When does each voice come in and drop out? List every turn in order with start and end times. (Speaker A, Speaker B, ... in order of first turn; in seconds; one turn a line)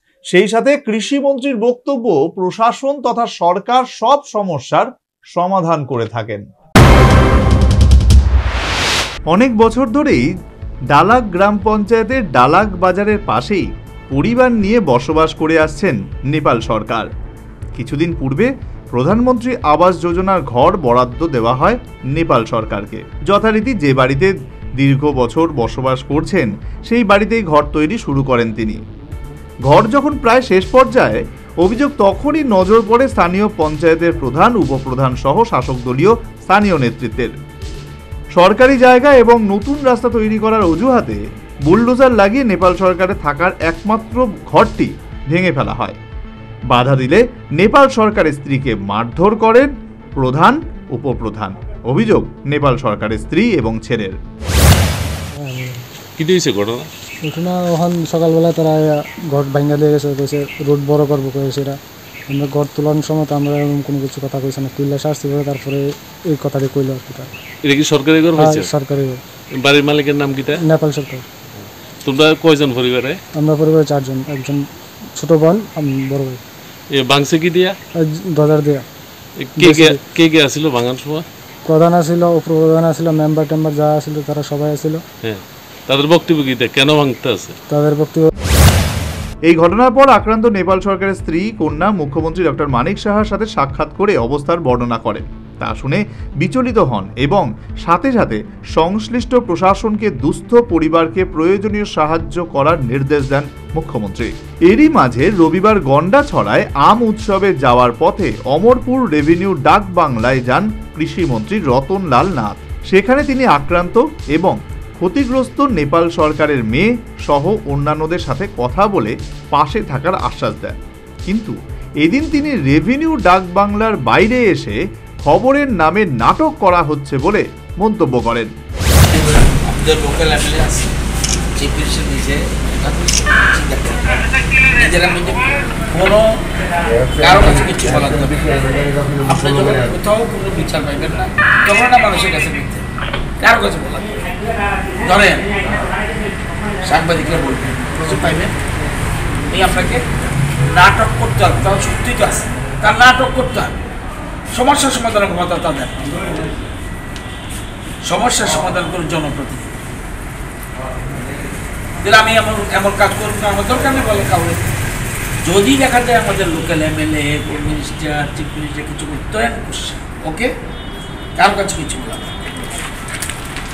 Speaker A: 0.3-6.4
Speaker A: 9.3-10.2
Speaker A: 10.9-17.1
Speaker A: 17.8-28.8
Speaker A: 29.7-37.3
Speaker A: 38.4-46.0
Speaker A: 46.7-54.2
Speaker B: 55.4-55.8
Speaker C: 56.2-56.9
Speaker B: 57.2-61.8
Speaker B: 62.3-67.3
Speaker C: 67.6-68.7
Speaker B: 68.4-69.2
Speaker C: 69.6-70.6
Speaker B: 70.6-71.2
Speaker C: 72.0-73.2
Speaker B: 73.3-76.4
Speaker C: 76.9-77.8
Speaker B: 78.0-78.9
Speaker C: 79.4-81.3
Speaker B: 79.6-80.0
Speaker B: 81.7-85.0
Speaker C: 85.2-87.5
Speaker B: 87.7-88.3
Speaker A: 89.5-120.8
Speaker A: 121.3-128.5
Speaker D: 129.1-130.9
Speaker D: 131.6-136.4
Speaker D: 137.2-138.6
Speaker D: 139.2-142.8
Speaker D: 143.4-144.1
Speaker D: 145.0-145.5
Speaker D: 146.8-148.6
Speaker D: 149.5-150.0
Speaker D: 150.7-153.8
Speaker D: 154.5-156.1
Speaker D: 158.0-159.7
Speaker D: 162.0-164.7
Speaker D: 165.4-170.5
Speaker D: 171.4-172.5